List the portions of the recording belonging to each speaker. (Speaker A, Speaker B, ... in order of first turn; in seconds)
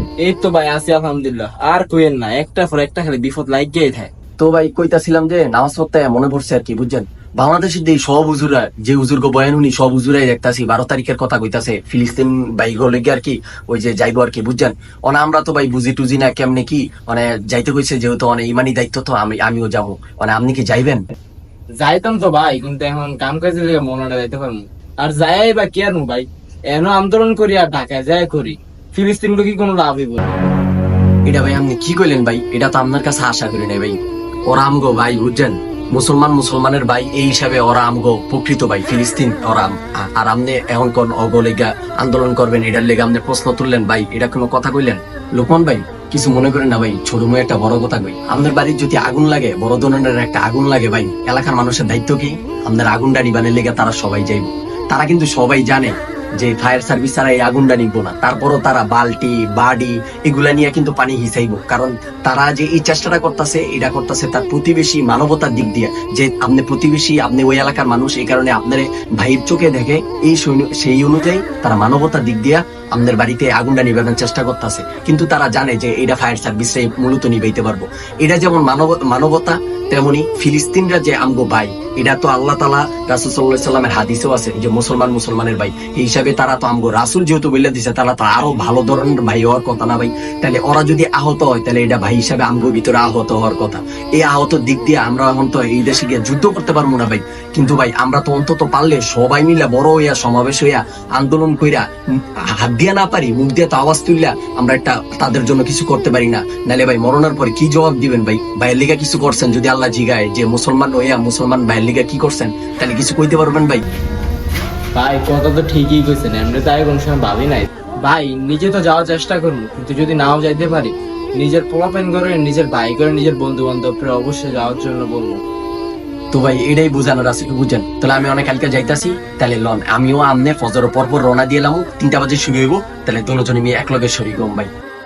Speaker A: 0.2-4.1, 21.8-30.4, 114.9-125.4
Speaker B: 4.4-21.0, 31.3-101.8, 102.6-113.8, 126.3-134.7